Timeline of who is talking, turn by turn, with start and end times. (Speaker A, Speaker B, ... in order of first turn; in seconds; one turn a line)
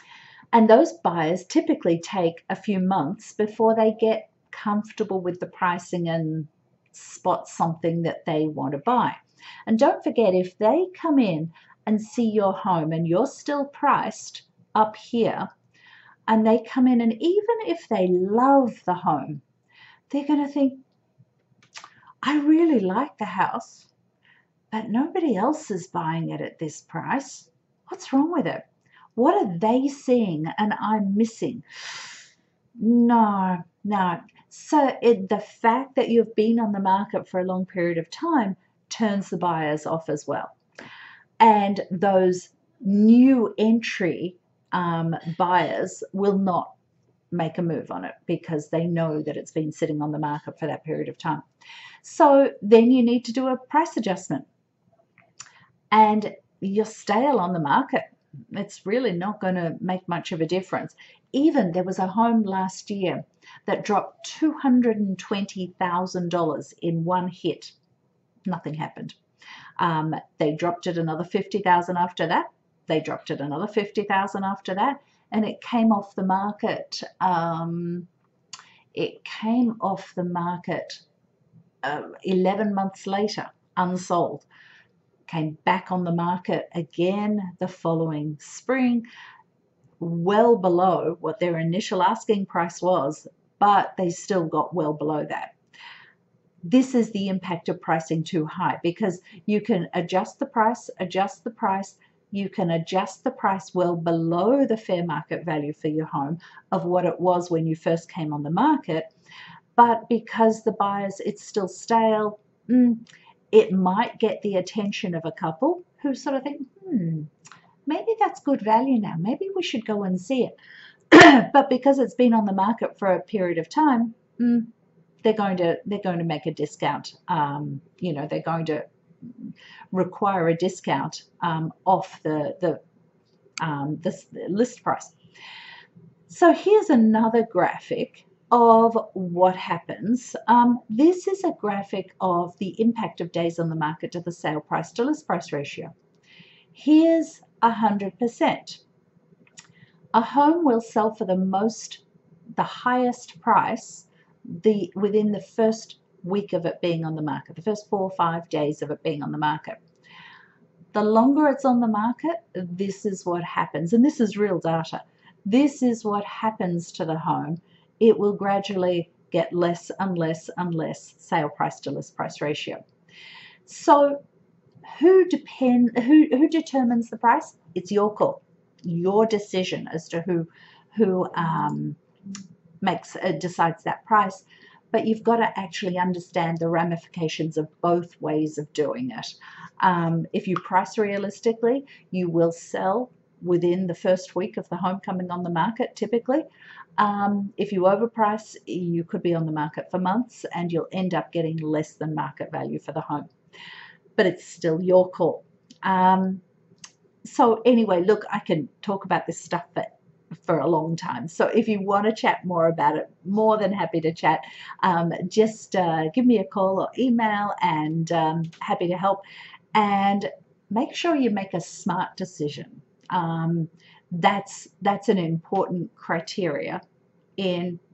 Speaker A: 0.5-15.5
Speaker A: 16.3-19.4
Speaker A: 20.1-20.8
Speaker A: 22.2-23.9
Speaker A: 24.7-32.1
Speaker A: 32.8-40.5
Speaker A: 41.4-46.7
Speaker A: 47.3-51.4
Speaker A: 52.0-54.5
Speaker A: 55.9-67.7
Speaker A: 68.5-69.2
Speaker A: 69.8-78.1
Speaker A: 78.9-81.0
Speaker A: 81.8-84.5
Speaker A: 85.3-89.0
Speaker A: 90.0-95.5
Speaker A: 96.6-109.1
Speaker A: 109.8-117.3
Speaker A: 117.8-120.5
Speaker A: 121.1-124.7
Speaker A: 125.2-132.8
Speaker A: 133.6-135.1
Speaker A: 136.3-145.9
Speaker A: 146.7-148.8
Speaker A: 150.1-152.0
Speaker A: 152.6-159.8
Speaker A: 160.9-172.8
Speaker A: 173.7-174.2
Speaker A: 174.8-182.0
Speaker A: 182.8-203.3
Speaker A: 204.2-206.4
Speaker A: 207.2-226.8
Speaker A: 227.4-227.8